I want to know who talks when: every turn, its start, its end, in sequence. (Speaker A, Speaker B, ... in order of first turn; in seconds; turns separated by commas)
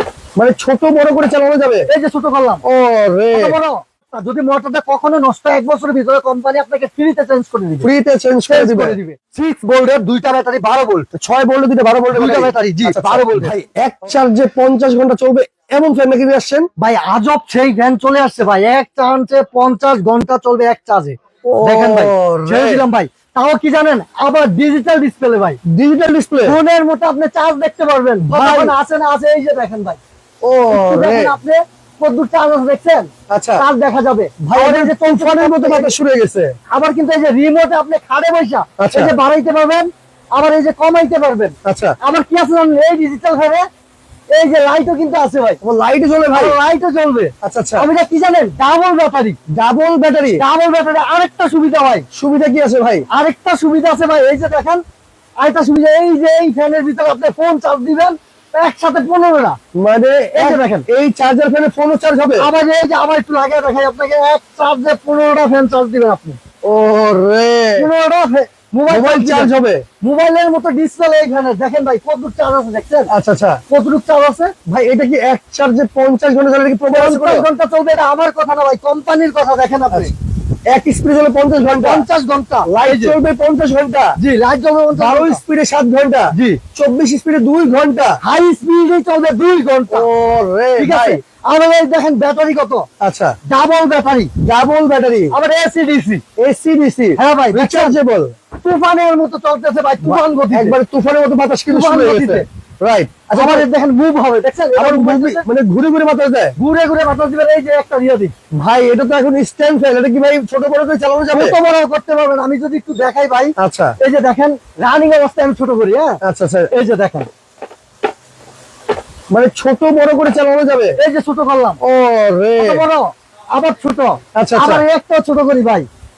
Speaker A: 0.4-1.9, Speaker B: 1.9-2.6, Speaker A: 2.6-3.6, Speaker B: 3.3-7.9, Speaker A: 7.8-9.0, Speaker B: 8.5-11.1, Speaker A: 11.1-16.7, Speaker B: 12.1-13.7, Speaker B: 16.8-25.6, Speaker A: 21.5-22.8, Speaker A: 25.6-26.6, Speaker B: 26.4-30.0, Speaker A: 28.2-28.8, Speaker A: 30.4-31.4, Speaker B: 30.7-35.9, Speaker A: 33.3-33.6, Speaker A: 34.4-36.6, Speaker B: 36.7-43.7, Speaker A: 38.8-39.2, Speaker A: 41.6-42.0, Speaker B: 44.3-45.6, Speaker A: 45.6-46.6, Speaker B: 46.3-49.4, Speaker A: 47.4-47.9, Speaker A: 49.5-50.4, Speaker B: 50.4-52.1, Speaker A: 52.1-53.0, Speaker B: 53.1-54.8, Speaker B: 55.4-59.6, Speaker A: 59.8-62.5, Speaker B: 60.4-60.9, Speaker B: 62.4-66.4, Speaker A: 66.6-67.9, Speaker B: 67.8-73.1, Speaker A: 68.9-69.8, Speaker A: 73.1-73.6, Speaker B: 73.7-74.5, Speaker A: 74.7-77.5, Speaker B: 76.9-80.1, Speaker A: 80.7-82.1, Speaker B: 81.8-83.2, Speaker A: 82.7-84.2, Speaker B: 84.2-85.4, Speaker A: 84.9-88.2, Speaker B: 86.3-86.6, Speaker B: 88.2-90.1, Speaker A: 89.9-91.2, Speaker B: 90.8-92.9, Speaker A: 93.0-93.4, Speaker B: 93.5-94.3, Speaker A: 94.4-95.3, Speaker B: 95.3-96.2, Speaker A: 96.4-98.3, Speaker B: 97.2-98.0, Speaker B: 98.6-100.8, Speaker A: 100.0-103.7, Speaker B: 101.7-102.5, Speaker B: 103.3-105.4, Speaker A: 104.8-106.6, Speaker B: 106.6-108.3, Speaker A: 108.5-111.6, Speaker B: 111.3-116.2, Speaker A: 113.6-114.0, Speaker A: 116.2-116.7, Speaker B: 116.7-117.3, Speaker A: 119.3-121.0, Speaker B: 121.0-121.8, Speaker A: 121.8-122.8, Speaker B: 122.6-125.9, Speaker A: 124.3-124.8